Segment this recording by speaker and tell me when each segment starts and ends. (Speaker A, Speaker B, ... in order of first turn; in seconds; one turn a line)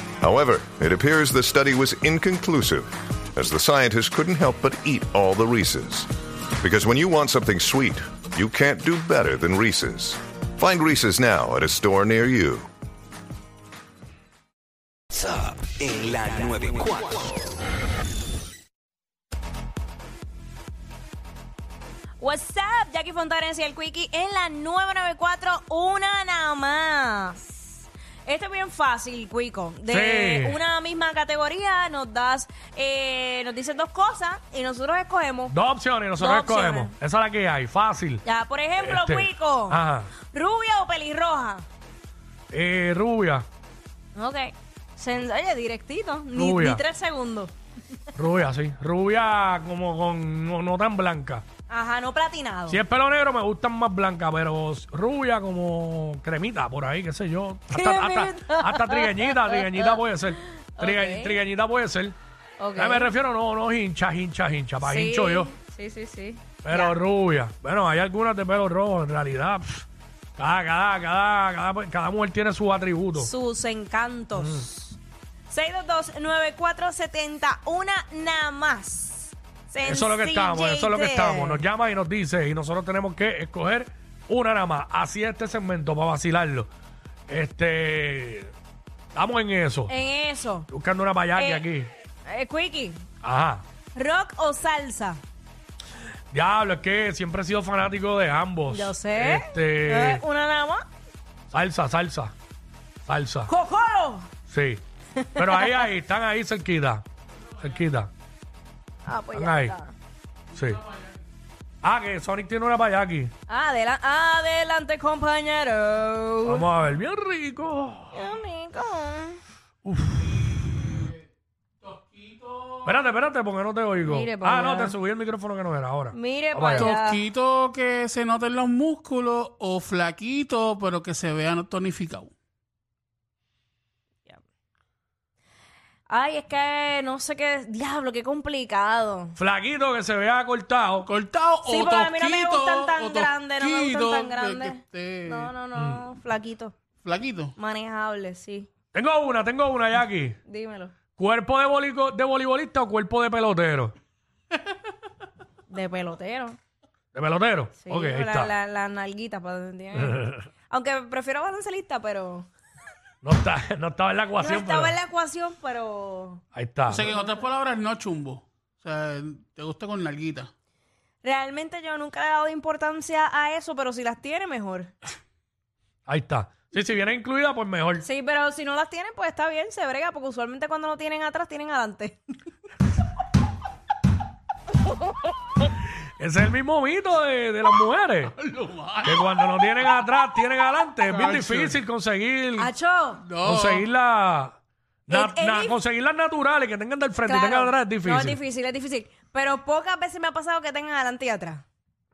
Speaker A: 0.2-6.1
Speaker A: 6.6-12.7
Speaker B: 15.2-17.4
Speaker C: 22.2-35.6
Speaker D: 29.9-30.6
Speaker D: 35.5-38.2
Speaker C: 36.2-36.9
Speaker C: 38.2-41.7
Speaker D: 38.8-40.1
Speaker D: 42.5-43.5
Speaker C: 44.1-47.5
Speaker D: 46.3-46.8
Speaker D: 48.2-51.5
Speaker C: 51.7-52.8
Speaker D: 52.7-62.2
Speaker C: 57.7-61.4
Speaker C: 62.6-63.1
Speaker D: 62.8-65.5
Speaker C: 64.8-67.0
Speaker D: 66.6-69.9
Speaker D: 70.4-73.3
Speaker C: 73.2-75.0
Speaker D: 74.4-74.7
Speaker C: 75.5-81.7
Speaker D: 79.8-86.7
Speaker D: 87.3-88.5
Speaker D: 89.1-89.9
Speaker C: 89.9-90.7
Speaker D: 90.7-91.9
Speaker C: 91.3-91.7
Speaker C: 92.2-93.0
Speaker D: 93.2-93.6
Speaker C: 93.9-95.2
Speaker D: 96.3-100.2
Speaker C: 98.7-100.8
Speaker D: 101.5-102.3
Speaker D: 103.1-103.5
Speaker C: 103.5-104.3
Speaker D: 104.5-104.8
Speaker C: 105.2-105.8
Speaker D: 105.3-107.0
Speaker D: 107.6-108.1
Speaker C: 109.0-109.9
Speaker D: 109.3-109.8
Speaker D: 110.5-110.8
Speaker E: 110.5-111.2
Speaker D: 111.8-113.3
Speaker C: 113.5-116.7
Speaker D: 116.5-118.2
Speaker C: 118.1-119.4
Speaker D: 119.8-120.5
Speaker E: 120.7-121.2
Speaker E: 121.8-123.1
Speaker D: 122.8-126.9
Speaker C: 124.0-125.0
Speaker C: 126.1-127.2
Speaker E: 126.7-132.3
Speaker C: 136.1-139.4
Speaker D: 139.4-141.1
Speaker E: 141.0-145.5
Speaker C: 141.6-146.7
Speaker D: 145.8-146.0
Speaker E: 147.0-147.5
Speaker C: 147.6-148.7
Speaker D: 148.9-150.4
Speaker C: 150.4-150.9
Speaker D: 151.1-153.9
Speaker C: 155.7-156.6
Speaker D: 157.1-158.5
Speaker C: 157.8-162.5
Speaker D: 160.0-160.4
Speaker D: 163.2-165.0
Speaker C: 164.4-166.4
Speaker D: 166.5-167.1
Speaker E: 166.9-170.5
Speaker C: 171.2-174.9
Speaker D: 176.1-178.0
Speaker C: 178.0-182.2
Speaker D: 186.2-188.3
Speaker E: 188.3-189.8
Speaker D: 189.0-192.7
Speaker E: 191.0-191.8
Speaker C: 192.6-193.2
Speaker E: 193.2-193.9
Speaker D: 193.4-198.4
Speaker C: 195.1-195.8
Speaker C: 197.2-201.6